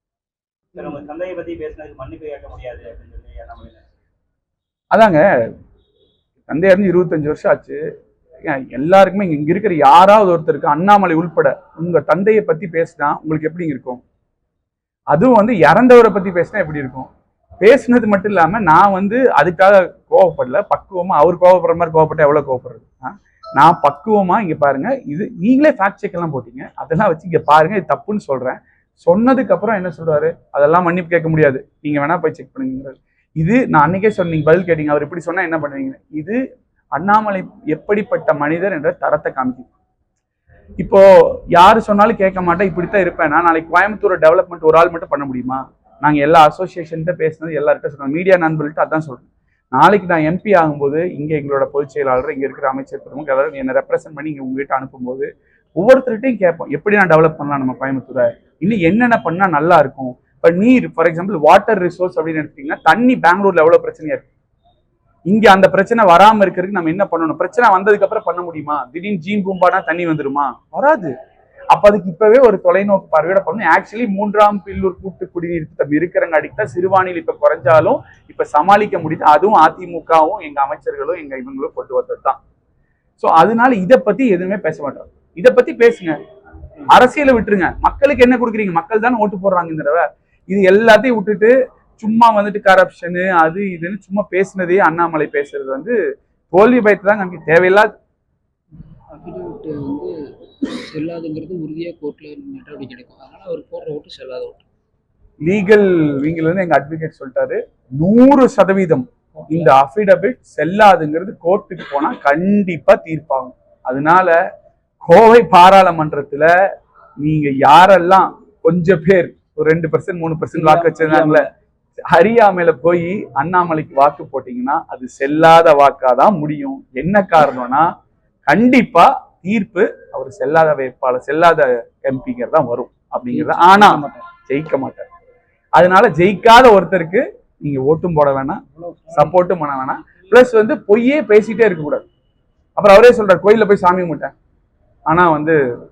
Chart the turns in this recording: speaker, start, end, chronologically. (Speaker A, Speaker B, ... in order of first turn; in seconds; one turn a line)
Speaker A: 0.7-3.8
Speaker B: 4.9-5.2
Speaker B: 6.5-7.8
Speaker B: 8.5-14.0
Speaker B: 15.1-17.1
Speaker B: 17.6-36.4
Speaker B: 37.0-39.7
Speaker B: 40.8-64.3
Speaker B: 65.3-71.1
Speaker B: 71.7-82.4
Speaker B: 83.2-86.2
Speaker B: 86.8-96.0
Speaker B: 96.5-97.9
Speaker C: 99.1-104.7
Speaker B: 105.4-114.3
Speaker C: 109.4-109.7
Speaker B: 115.0-116.5
Speaker B: 117.2-121.5
Speaker C: 120.5-121.4
Speaker B: 122.1-127.9
Speaker B: 128.5-135.1
Speaker C: 133.3-134.3
Speaker B: 135.8-142.1
Speaker C: 138.8-139.4
Speaker B: 142.8-144.3
Speaker B: 145.1-145.6